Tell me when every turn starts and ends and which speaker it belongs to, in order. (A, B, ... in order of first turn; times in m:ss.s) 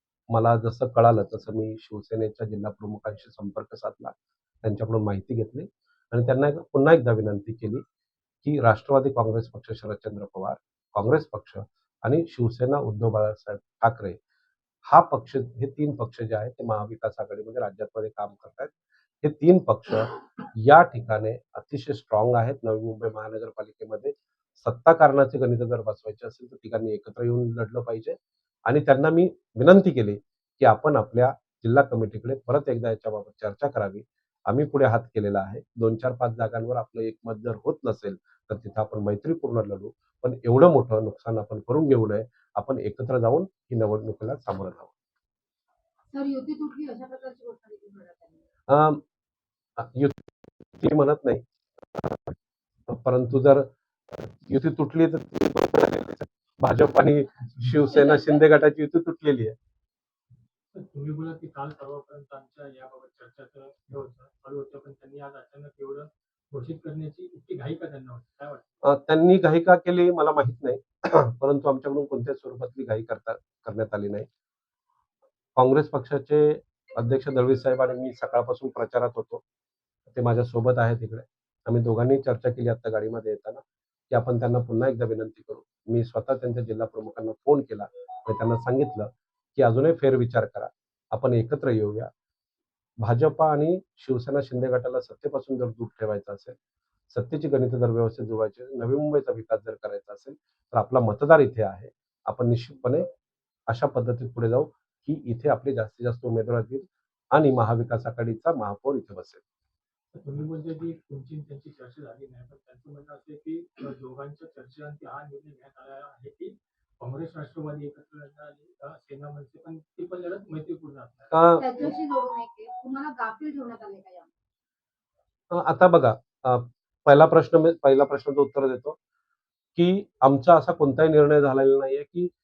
0:00.3-0:07.8 A
0:08.4-0:14.2 A
0:14.9-0:44.9 A
0:46.1-0:48.4 B
0:48.7-0:49.0 A
0:49.8-0:51.4 A
0:52.0-0:52.3 A
0:52.9-0:59.6 A
1:00.7-1:08.7 C
1:08.8-1:14.3 A
1:15.6-1:19.4 A
1:20.1-1:32.1 A
1:33.0-1:36.6 A
1:37.1-1:43.1 A
1:43.7-1:49.4 A
1:50.1-2:01.4 C
2:01.3-2:01.9 A
2:01.5-2:04.3 B
2:05.5-2:09.0 A
2:09.8-2:12.3 A